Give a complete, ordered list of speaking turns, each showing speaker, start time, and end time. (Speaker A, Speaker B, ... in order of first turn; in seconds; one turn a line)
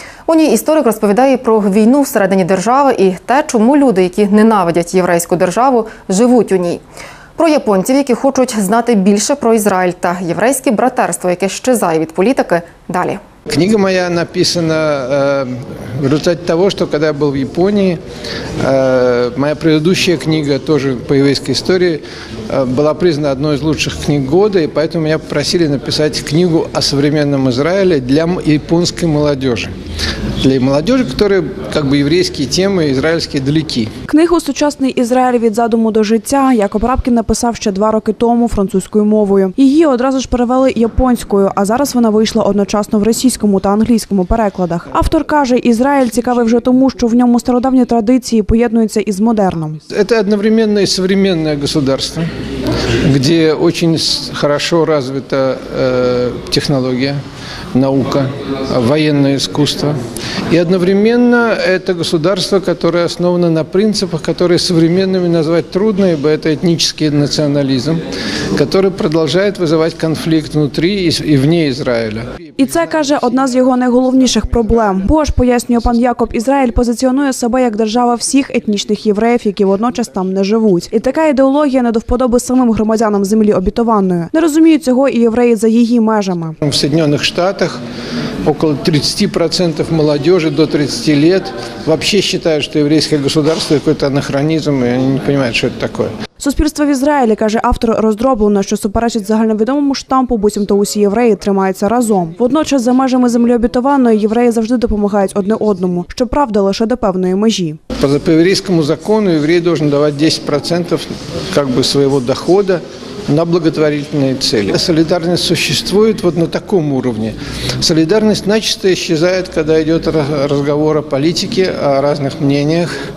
Speaker A: 0.3-6.8
Speaker A: 7.4-13.2
Speaker B: 13.5-18.0
Speaker B: 18.6-29.7
Speaker B: 30.4-33.9
Speaker C: 34.1-49.8
Speaker B: 49.9-52.3
Speaker B: 53.0-57.2
Speaker B: 57.7-60.0
Speaker B: 60.5-72.3
Speaker C: 72.6-86.6
Speaker B: 86.6-87.8
Speaker B: 88.4-96.1
Speaker C: 96.4-107.8
Speaker B: 108.0-122.9